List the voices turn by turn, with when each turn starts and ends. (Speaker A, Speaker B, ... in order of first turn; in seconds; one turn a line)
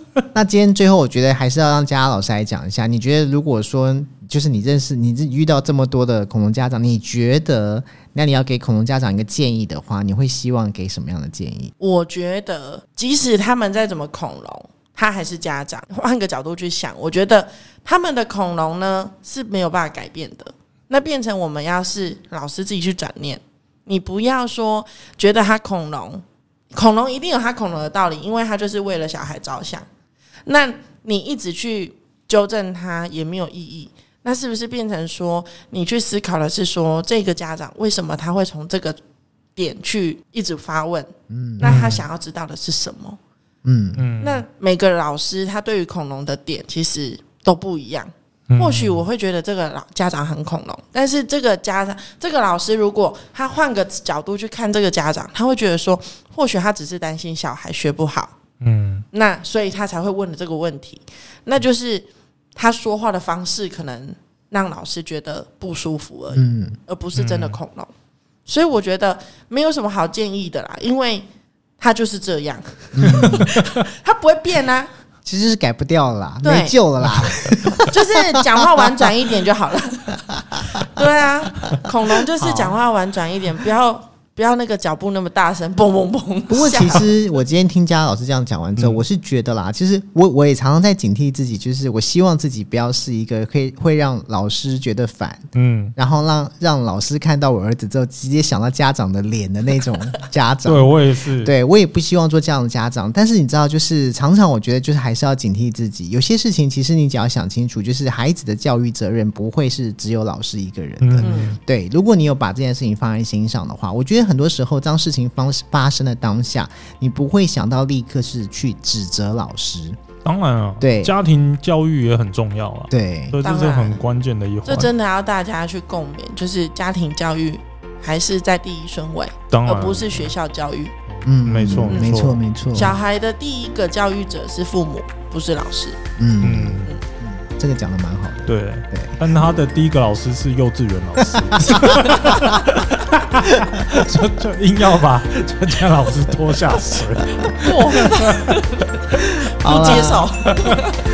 Speaker A: 0.3-11.7
Speaker B: 11.8-29.9
Speaker B: 30.4-39.0
Speaker B: 39.5-43.2
Speaker A: 41.3-41.8
Speaker C: 41.6-42.0
Speaker A: 43.6-44.0
Speaker C: 44.0-44.4
Speaker B: 44.2-58.3
Speaker C: 48.5-49.0
Speaker C: 58.6-59.0
Speaker B: 59.1-67.9
Speaker A: 66.3-66.8
Speaker C: 67.2-67.6
Speaker B: 68.5-71.2
Speaker B: 71.8-74.9
Speaker A: 72.9-73.5
Speaker A: 75.2-78.0
Speaker B: 76.4-76.8
Speaker B: 77.8-87.1
Speaker A: 78.6-78.9
Speaker A: 82.4-82.8
Speaker A: 86.5-120.0
Speaker C: 88.8-89.0
Speaker C: 95.5-95.9
Speaker C: 100.6-101.5
Speaker C: 111.0-111.6
Speaker B: 111.2-111.5
Speaker C: 120.2-124.9
Speaker A: 120.8-121.1
Speaker A: 122.9-123.4
Speaker B: 123.4-124.0
Speaker B: 124.7-130.9
Speaker C: 129.5-130.3
Speaker C: 131.1-132.4
Speaker A: 131.2-133.0
Speaker B: 132.7-136.0
Speaker A: 136.2-139.2
Speaker C: 136.4-136.9
Speaker C: 138.5-148.6
Speaker A: 141.2-142.5
Speaker A: 143.5-144.0
Speaker B: 147.5-151.0
Speaker A: 149.6-150.3
Speaker C: 149.7-150.7